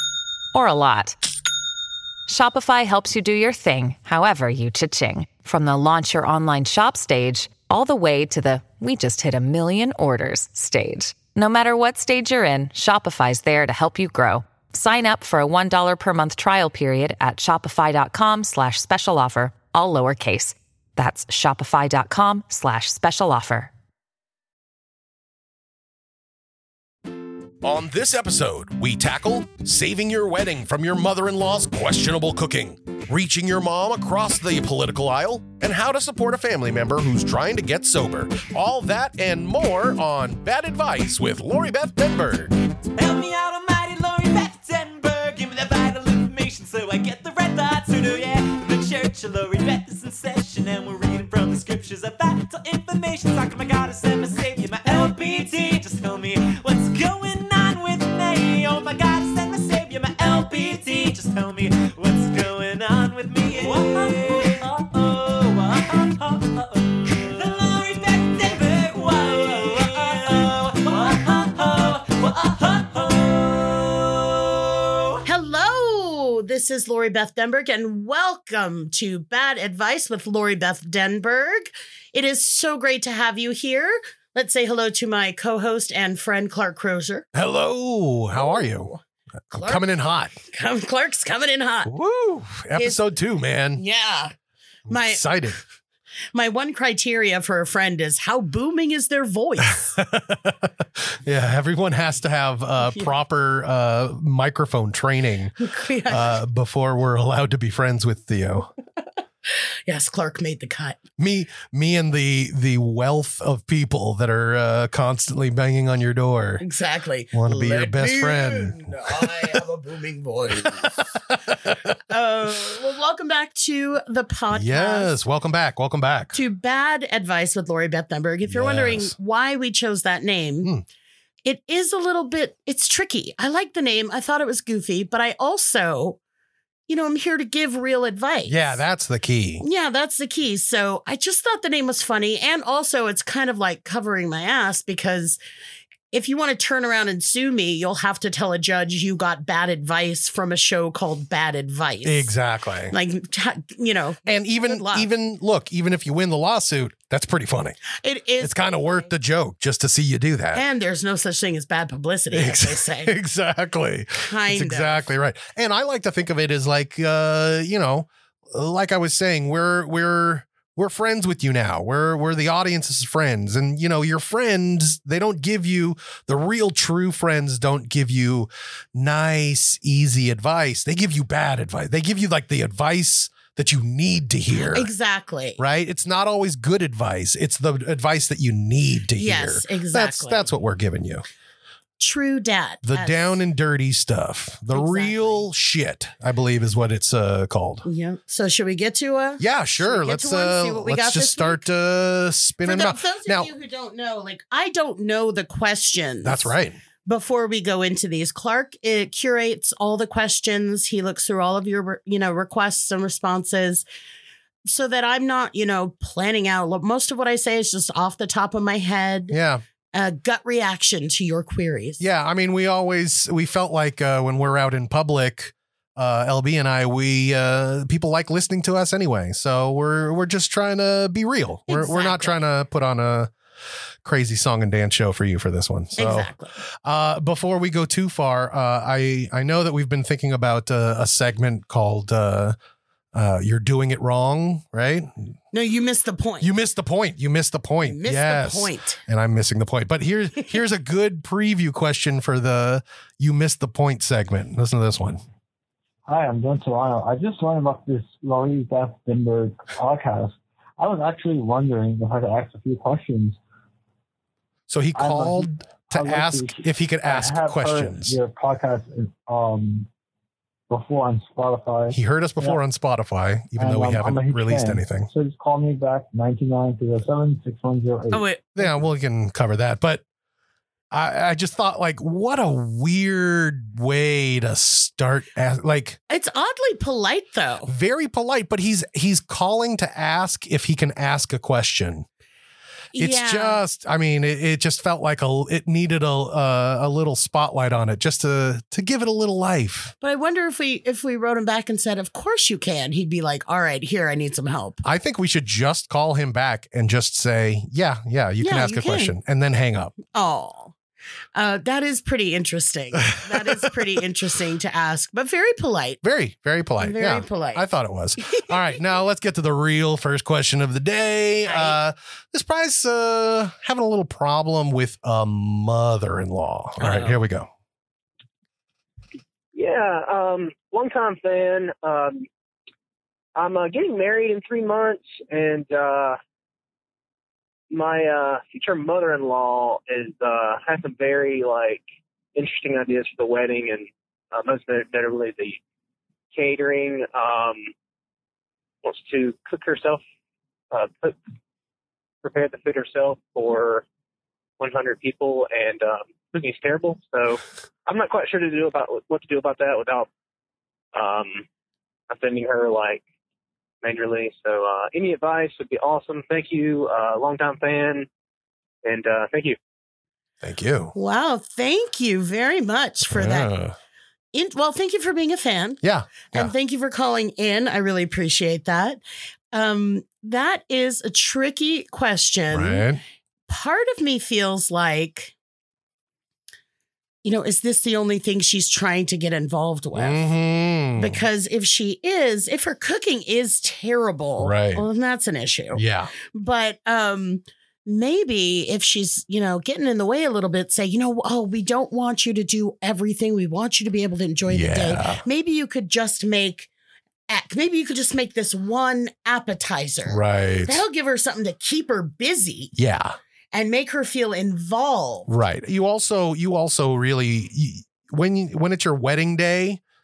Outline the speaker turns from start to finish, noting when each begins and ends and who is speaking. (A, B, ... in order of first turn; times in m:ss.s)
0:00.5-0:01.2 A
0:02.3-0:23.7 A
0:27.6-0:42.5 B
0:43.0-1:15.2 C
1:15.3-1:27.3 D
1:27.3-1:28.9 B
1:28.4-1:29.0 D
1:29.5-1:30.4 B
1:29.5-1:29.8 D
1:30.5-1:31.9 D
1:31.8-1:33.8 B
1:32.8-1:33.0 D
1:33.8-1:34.3 D
1:34.9-1:35.6 B
1:34.9-1:35.2 D
1:36.3-1:40.0 D
1:39.9-1:45.6 B
1:45.6-1:46.4 D
1:46.1-1:48.7 B
1:49.5-1:51.0 D
1:51.2-1:56.6 B
1:56.6-2:01.2 D
1:57.3-1:59.6 B
2:00.6-2:01.8 B
2:01.7-2:05.1 D
2:04.5-2:06.4 B
2:06.3-2:10.7 D
2:08.5-2:09.2 B
2:11.4-2:16.2 D
2:16.9-2:18.8 D
2:18.5-2:19.6 B
2:19.6-2:25.4 D
2:26.1-2:32.3 D
2:32.0-2:33.0 B
2:32.9-2:35.1 D
2:34.3-2:37.8 B
2:38.0-2:39.1 D
2:38.4-2:40.6 B
2:40.5-2:43.1 D
2:42.3-3:04.9 B
2:44.2-2:45.1 D
3:04.6-3:05.6 D
3:05.6-3:11.2 B
3:09.2-3:10.5 D
3:12.0-3:13.4 D
3:12.8-3:17.9 B
3:14.7-3:15.5 D
3:17.8-3:21.6 D
3:19.4-3:23.5 B
3:22.6-3:26.5 D
3:26.2-3:26.8 B
3:27.0-3:33.8 D
3:34.7-3:39.4 D
3:39.3-3:39.6 B
3:39.9-3:42.0 D
3:42.0-3:53.3 B
3:51.7-3:52.4 D
3:54.0-3:56.3 B
3:56.0-3:56.5 D
3:56.8-4:02.6 B
4:03.1-4:05.3 B
4:05.5-4:06.5 D
4:06.4-4:15.2 B
4:07.8-4:09.0 D
4:16.1-4:23.4 E
4:24.7-4:28.2 B
4:25.0-4:29.9 E
4:30.7-4:32.6 E
4:31.9-4:35.1 B
4:33.6-4:38.3 E
4:38.1-4:38.7 D
4:38.6-4:40.0 B
4:40.9-4:46.0 B
4:46.1-4:47.7 D
4:47.7-4:52.1 B
4:52.9-4:53.6 D
4:53.0-4:59.9 B
5:00.0-5:04.8 D
5:04.8-5:10.0 B
5:08.4-5:09.1 D
5:10.1-5:10.8 D
5:11.4-5:16.0 D
5:13.2-5:13.6 B
5:16.0-5:27.5 B
5:16.8-5:17.6 D
5:21.5-5:21.8 D
5:26.8-5:27.2 D
5:29.5-5:32.3 F
5:33.4-5:36.2 F
5:37.7-5:41.8 F
5:42.3-5:45.6 F
5:46.3-5:47.7 F
5:48.8-5:50.0 F
5:50.7-5:51.2 F
5:52.2-5:53.8 F
5:54.6-6:00.1 F
6:00.9-6:01.5 F
6:02.1-6:03.0 F
6:03.8-6:08.1 F
6:08.8-6:09.6 F
6:10.4-6:10.9 B
6:11.0-6:13.5 D
6:13.0-6:13.8 B
6:14.3-6:15.8 D
6:15.8-6:16.5 B
6:16.3-6:19.0 D
6:19.5-6:22.9 D
6:22.5-6:23.0 B
6:23.5-6:25.3 D
6:27.2-6:30.2 D
6:30.0-6:31.2 B
6:31.0-6:46.7 D
6:34.4-6:34.8 B
6:35.7-6:36.1 B
6:44.5-6:45.2 B
6:47.3-6:52.7 D
6:50.0-6:50.8 B
6:52.8-6:53.2 B
6:53.5-6:55.3 D
6:55.3-6:59.8 B